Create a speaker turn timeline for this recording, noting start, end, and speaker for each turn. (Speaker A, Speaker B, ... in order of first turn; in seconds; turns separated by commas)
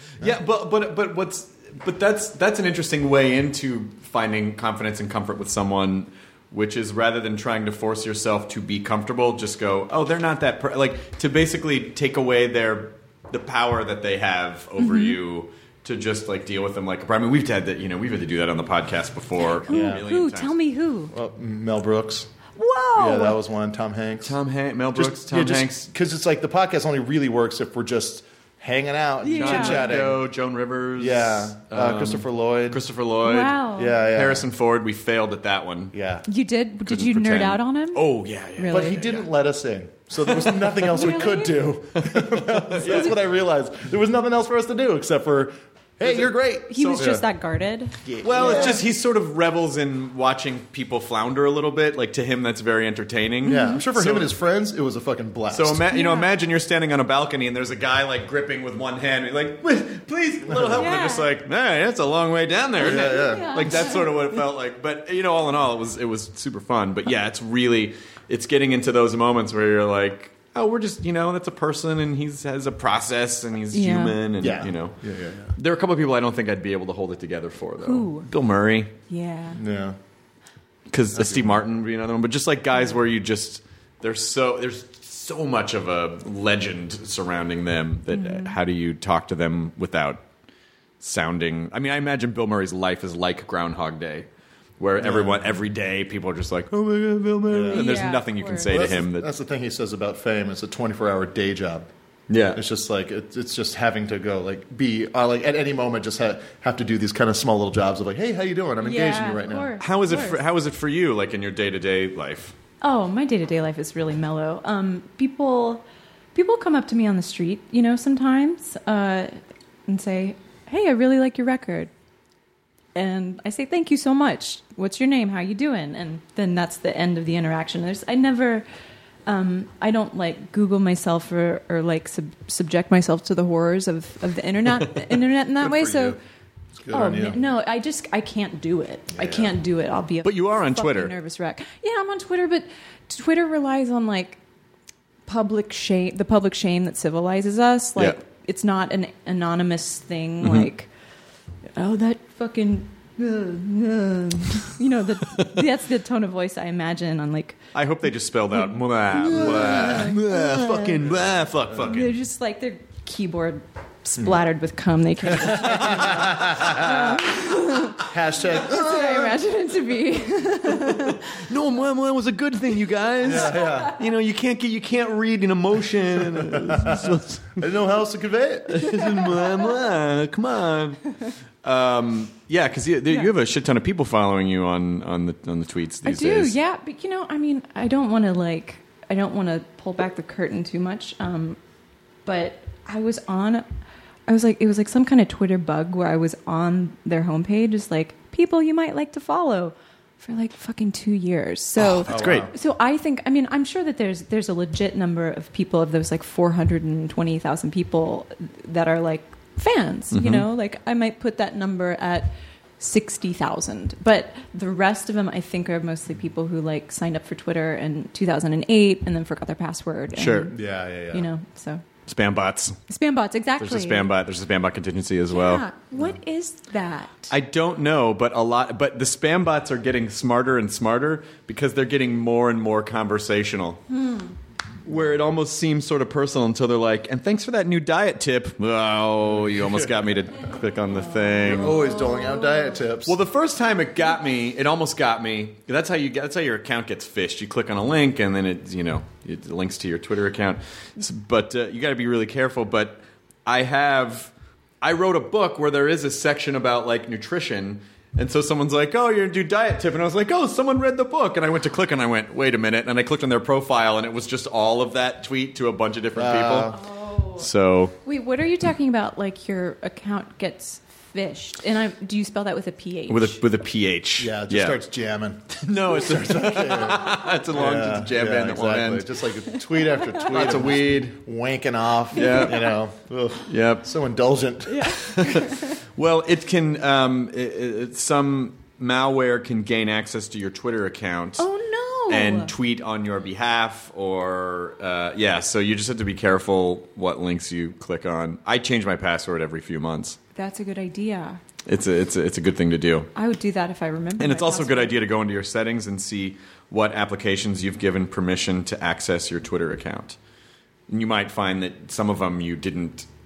Speaker A: 0.2-20.6, Speaker B: 14.8-15.2, Speaker C: 19.7-20.0, Speaker B: 19.7-21.1, Speaker C: 21.1-22.3, Speaker B: 22.6-23.4, Speaker C: 22.9-24.4, Speaker A: 24.2-25.9, Speaker C: 24.9-30.2, Speaker B: 29.2-29.9, Speaker A: 29.3-33.6, Speaker C: 31.0-32.8, Speaker B: 33.2-34.0, Speaker C: 33.8-34.5, Speaker A: 34.1-35.9, Speaker C: 35.9-36.2, Speaker B: 36.3-39.0, Speaker A: 36.9-39.3, Speaker C: 38.7-47.2, Speaker B: 40.9-41.7, Speaker A: 42.2-43.2, Speaker A: 46.0-47.1, Speaker B: 46.7-48.8, Speaker C: 48.0-48.8, Speaker A: 48.2-54.3, Speaker C: 53.4-55.9, Speaker B: 53.5-53.8, Speaker A: 55.5-75.0, Speaker B: 55.9-56.3, Speaker C: 60.5-60.9, Speaker B: 60.7-61.3, Speaker C: 62.8-63.8, Speaker B: 62.9-64.1, Speaker B: 73.7-74.2, Speaker C: 74.4-75.5, Speaker A: 75.6-78.9, Speaker B: 77.8-78.3, Speaker B: 79.1-79.6, Speaker C: 79.5-80.0, Speaker A: 80.9-90.2, Speaker C: 81.1-81.6, Speaker B: 88.1-88.6, Speaker A: 91.0-94.3, Speaker A: 94.8-99.3, Speaker C: 95.0-95.6, Speaker C: 97.5-98.0, Speaker B: 97.7-98.7, Speaker C: 98.7-101.9, Speaker A: 102.3-102.6, Speaker C: 102.5-109.7, Speaker B: 108.8-110.4, Speaker A: 109.8-112.5, Speaker B: 112.8-115.8, Speaker B: 116.3-119.3, Speaker B: 119.9-121.9, Speaker B: 123.0-128.7, Speaker B: 129.3-136.2, Speaker C: 135.6-136.2, Speaker C: 136.8-137.4, Speaker B: 136.9-144.4, Speaker C: 139.1-139.5, Speaker A: 140.2-141.1, Speaker B: 145.3-150.9, Speaker A: 150.4-150.7, Speaker B: 151.8-157.6, Speaker A: 155.3-155.6, Speaker A: 157.7-162.1, Speaker B: 158.6-161.0, Speaker C: 159.3-160.1, Speaker B: 161.8-171.4, Speaker A: 165.5-166.6, Speaker C: 165.5-167.1, Speaker C: 168.0-169.3, Speaker A: 170.7-177.7, Speaker C: 173.2-174.0, Speaker B: 173.4-173.8, Speaker C: 176.4-179.0, Speaker A: 178.7-186.6, Speaker B: 186.1-191.6, Speaker B: 192.3-193.7, Speaker B: 194.3-220.6, Speaker A: 201.8-202.5, Speaker C: 202.1-202.5, Speaker A: 210.1-210.5, Speaker A: 220.2-220.5, Speaker C: 220.5-221.3, Speaker B: 221.1-221.8, Speaker A: 222.1-222.8, Speaker B: 222.9-224.1, Speaker A: 223.6-225.6, Speaker B: 225.3-227.3, Speaker A: 227.3-233.8, Speaker B: 233.9-234.3, Speaker A: 234.8-241.8, Speaker C: 239.3-239.9, Speaker B: 241.2-242.8, Speaker C: 241.4-243.2, Speaker A: 243.1-266.8, Speaker C: 266.1-266.8, Speaker B: 266.7-267.5, Speaker A: 267.4-267.9, Speaker B: 268.0-273.4, Speaker A: 273.1-274.8, Speaker C: 274.2-284.9, Speaker A: 275.5-279.2, Speaker B: 279.9-280.2, Speaker A: 280.2-281.1, Speaker B: 282.1-282.5, Speaker A: 282.1-282.7, Speaker A: 283.5-283.9, Speaker B: 284.7-285.7, Speaker A: 285.0-291.5, Speaker B: 291.4-292.5, Speaker A: 292.1-300.2, Speaker B: 300.4-301.4, Speaker A: 301.7-303.1, Speaker B: 303.1-305.0, Speaker A: 304.2-310.2, Speaker A: 310.9-313.1